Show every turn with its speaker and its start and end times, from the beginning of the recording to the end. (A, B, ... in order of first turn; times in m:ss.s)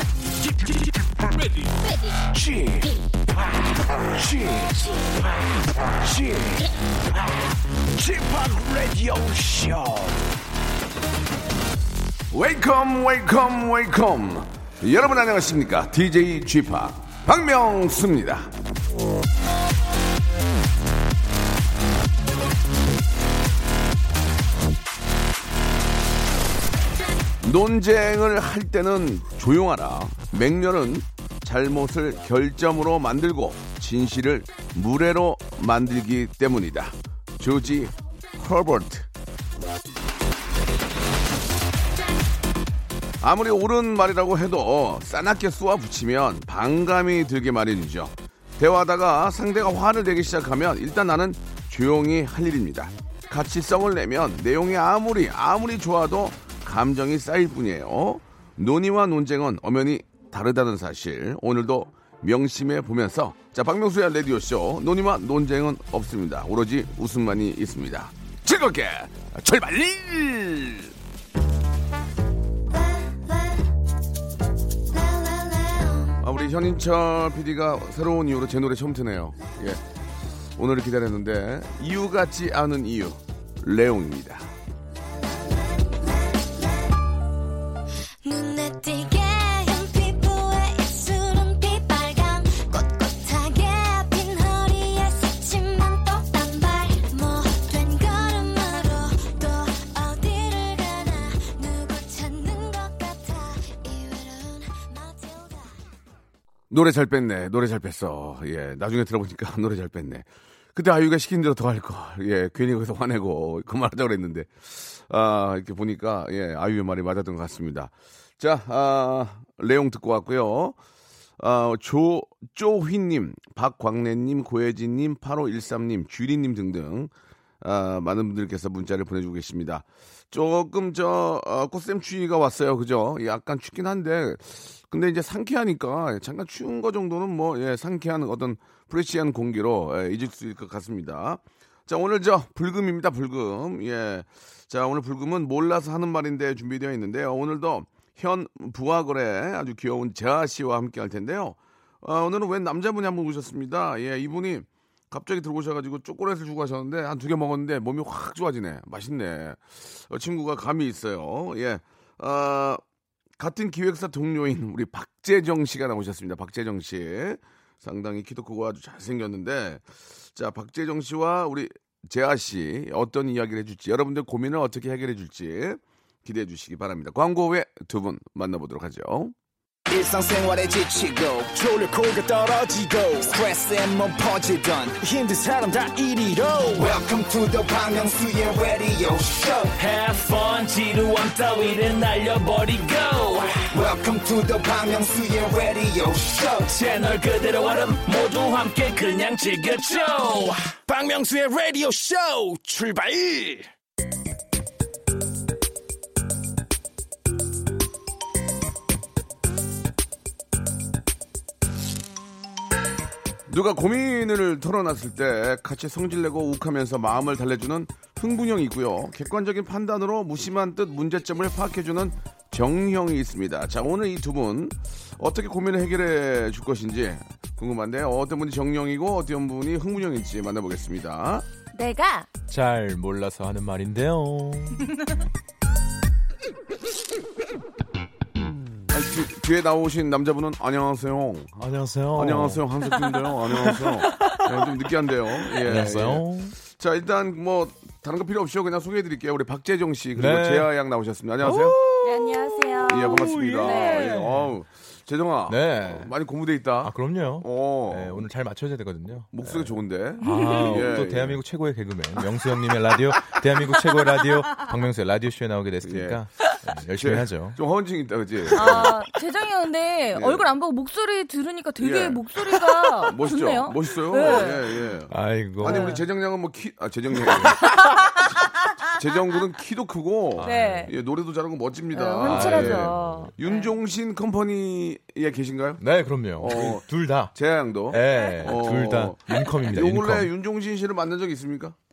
0:00.5-0:10.3 A
0:12.3-0:18.5 B
0:27.4-0:39.1 B
0:43.2-1:10.9 B
1:12.7-1:13.7 C
1:14.9-1:16.2 C
1:16.2-1:19.8 B
1:20.6-1:24.5 B
1:25.0-1:27.0 C
1:28.2-1:45.8 C
1:46.7-2:00.8 B
2:01.4-2:42.8 B
2:43.4-2:59.3 B
2:59.9-3:09.8 A
3:09.8-3:13.7 D
3:13.7-3:16.8 A
3:16.7-3:20.7 D
3:20.8-3:23.7 E
3:33.5-3:51.4 B
3:51.7-3:52.3 F
3:52.5-3:54.9 G
3:54.8-3:55.2 F
3:58.9-4:01.6 B
4:01.6-4:02.6 G
4:02.1-4:11.8 B
4:03.6-4:04.8 G
4:05.5-4:06.6 G
4:10.2-4:10.7 G
4:11.4-4:14.5 G
4:12.0-4:14.2 F
4:12.9-4:18.3 B
4:15.5-4:16.1 G
4:16.8-4:27.6 G
4:19.3-4:21.4 B
4:20.2-4:20.9 F
4:23.8-4:24.0 F
4:25.8-4:26.2 B
4:26.9-4:28.9 B
4:28.5-4:34.7 F
4:30.1-4:30.5 B
4:31.8-4:32.2 B
4:33.0-4:37.6 B
4:34.2-4:34.5 G
4:35.1-4:36.0 G
4:35.6-4:36.0 F
4:37.7-4:38.4 F
4:38.9-4:45.8 B
4:40.4-4:40.9 G
4:40.4-4:40.9 F
4:41.9-4:43.8 F
4:42.2-4:43.3 G
4:45.8-4:47.4 G
4:46.4-4:51.8 B
4:47.9-4:50.3 G
4:48.1-4:49.8 F